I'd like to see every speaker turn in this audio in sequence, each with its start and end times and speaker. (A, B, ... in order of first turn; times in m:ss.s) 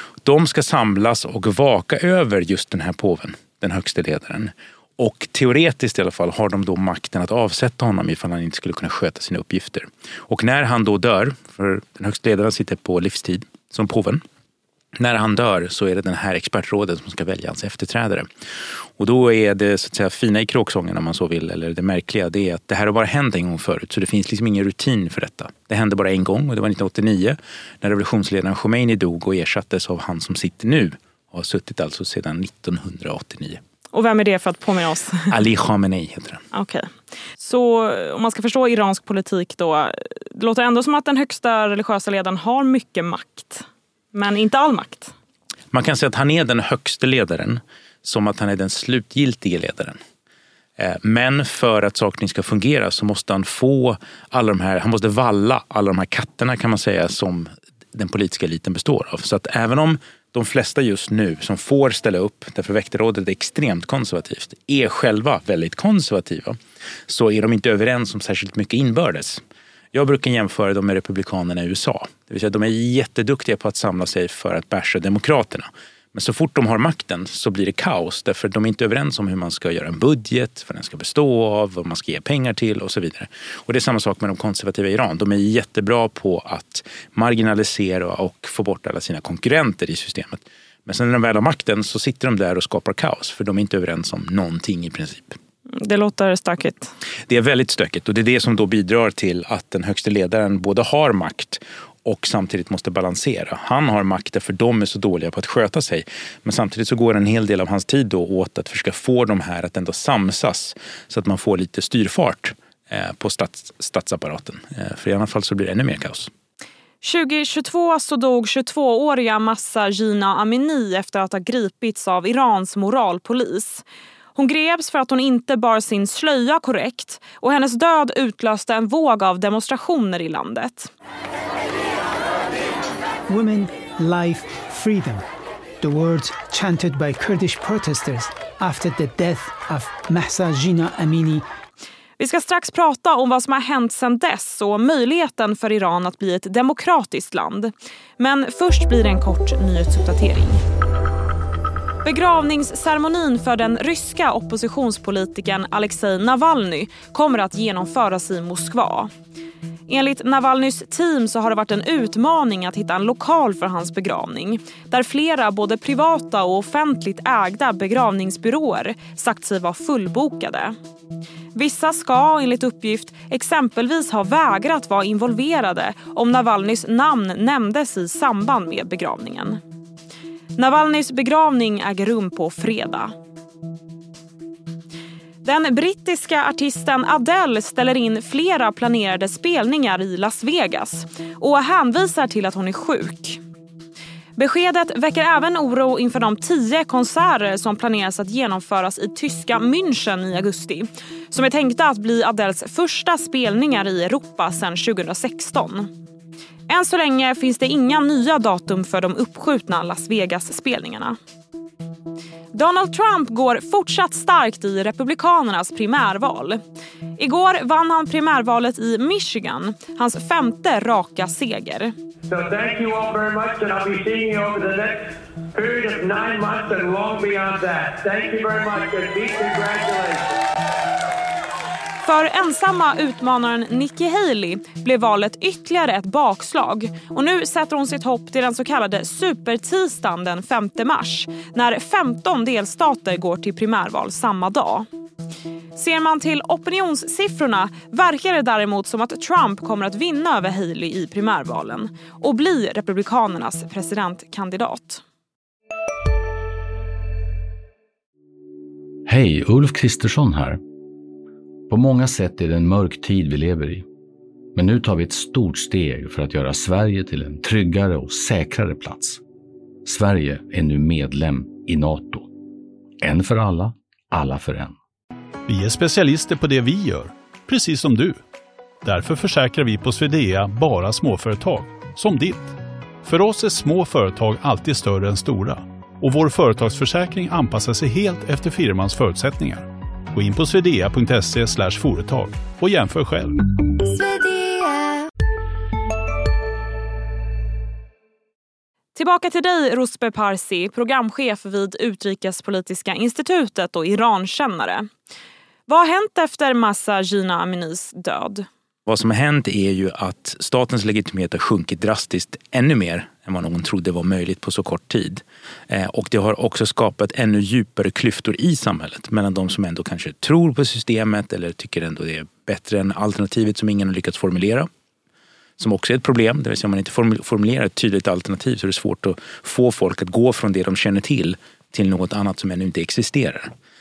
0:00.2-0:14.2 A
0:15.0-0:18.3 A
0:19.0-0:33.6 A
0:33.9-0:35.3 B
0:35.3-0:36.4 A
0:36.5-0:45.1 B
0:45.7-0:50.0 A
0:50.8-1:06.6 A
1:07.1-1:09.4 A
1:09.9-1:35.4 A
1:35.7-1:36.9 B
1:37.3-1:56.3 A
1:57.0-2:03.8 B
2:04.3-2:10.9 B
2:13.3-2:15.2 C
2:15.8-2:21.4 C
2:22.2-2:30.6 B
2:32.0-2:39.1 B
2:39.9-2:50.8 B
2:51.6-2:59.6 B
3:00.6-3:03.1 B
3:05.4-3:13.4 B
3:14.4-3:25.9 B
3:26.7-3:31.2 B
3:32.5-3:36.6 B
3:37.2-3:41.9 B
3:42.3-3:50.4 D
3:52.0-4:04.9 B
4:05.8-4:15.0 B
4:19.1-4:20.6 E
4:21.7-4:23.9 E
4:24.6-4:29.2 E
4:29.8-4:32.3 E
4:33.0-4:34.8 E
4:35.5-4:38.2 F
4:38.8-4:53.4 F
4:58.9-5:04.9 B
5:05.7-5:08.4 B
5:08.9-5:24.7 A
5:25.6-5:33.5 A